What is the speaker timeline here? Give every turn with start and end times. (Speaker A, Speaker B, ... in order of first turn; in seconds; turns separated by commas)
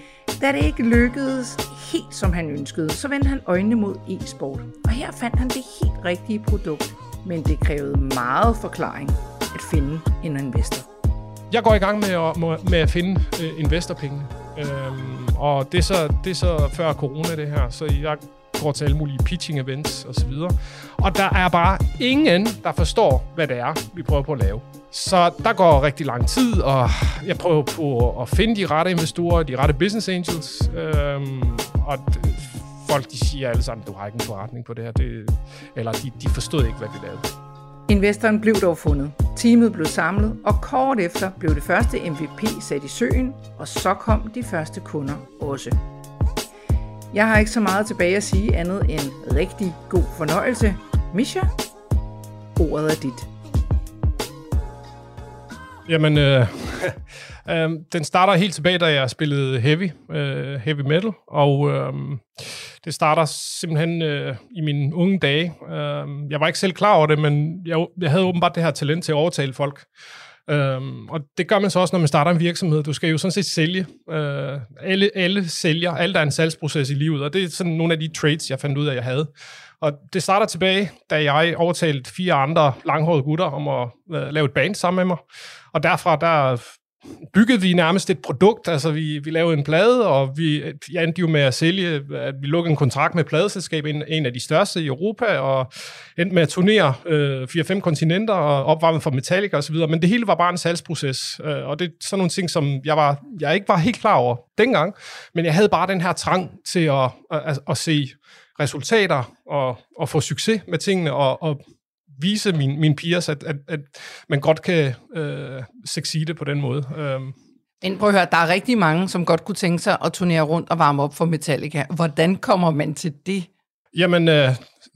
Speaker A: 0.4-10.9, Speaker B: 11.5-37.2, Speaker A: 37.9-45.8, Speaker A: 47.1-51.5, Speaker A: 52.5-53.3, Speaker B: 55.9-69.9, Speaker B: 70.5-79.3, Speaker B: 79.8-85.2, Speaker B: 85.7-111.6, Speaker B: 112.1-117.3, Speaker A: 117.8-123.5, Speaker B: 123.9-124.7